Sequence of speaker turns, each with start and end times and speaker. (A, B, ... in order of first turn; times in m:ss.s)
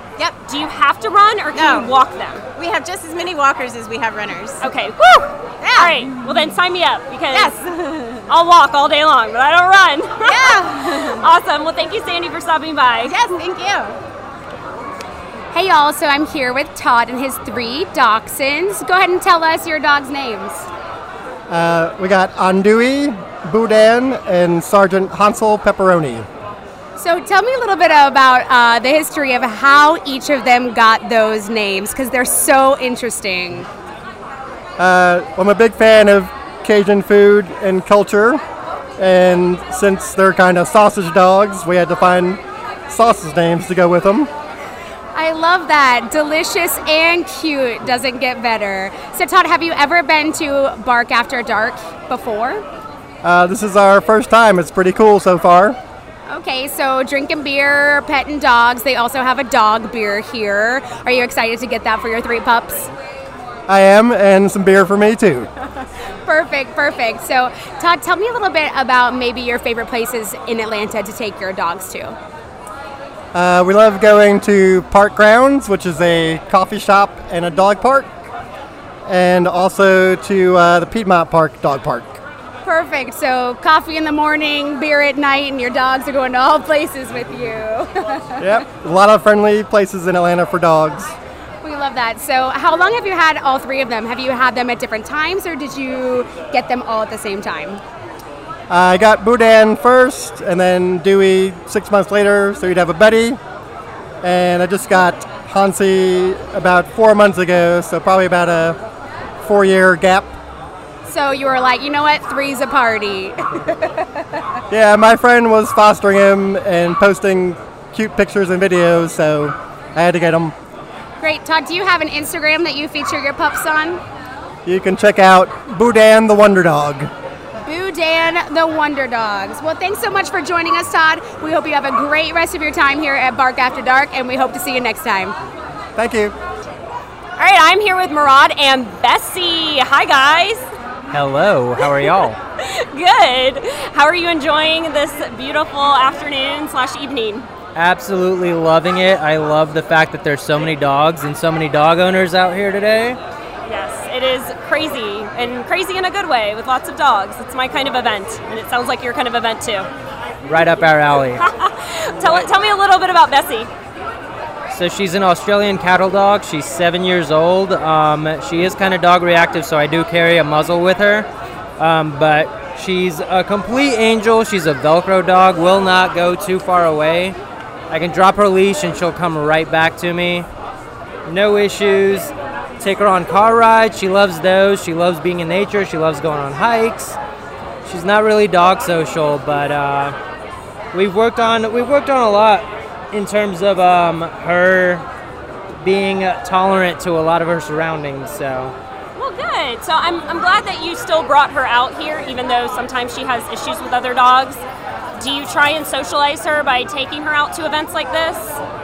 0:00.4-0:02.4 A
0:01.5-0:01.9 B
0:02.6-0:04.7 B
0:04.6-0:07.5 A
0:05.6-0:06.4 B
0:07.3-0:08.3 B
0:08.3-0:13.2 A
0:10.2-0:11.2 B
0:13.0-0:14.0 B
0:15.5-0:20.7 C
0:21.5-0:26.3 D
0:27.0-0:33.7 C
0:34.8-0:38.4 D
0:39.0-0:44.3 D
0:45.1-0:52.6 C
0:53.2-0:55.8 D
0:56.3-1:02.9 C
1:03.7-1:05.5 D
1:06.2-1:12.2 C
1:13.3-1:18.3 D
1:19.0-1:22.2 D
1:22.6-1:28.5 C
1:28.4-1:31.1 D
1:31.6-1:37.8 C
1:38.7-1:43.4 D
1:44.2-1:48.8 D
1:49.4-1:50.3 D
1:51.0-1:54.0 C
1:54.7-2:00.5 D
2:01.2-2:04.0 C
2:04.6-2:07.1 D
2:07.6-2:15.4 C
2:16.0-2:16.4 D
2:17.4-2:20.7 A
2:21.1-2:22.4 E
2:21.8-2:27.5 A
2:27.8-2:33.2 E
2:33.6-2:39.9 A
2:40.5-2:41.4 E
2:41.4-2:43.7 A
2:42.2-2:42.5 E
2:44.7-2:51.3 E
2:51.8-2:57.4 E
2:57.9-3:00.5 E
3:01.2-3:07.2 E
3:07.8-3:10.1 E
3:10.9-3:15.0 E
3:15.8-3:18.8 E
3:19.2-3:24.6 A
3:25.2-3:28.6 A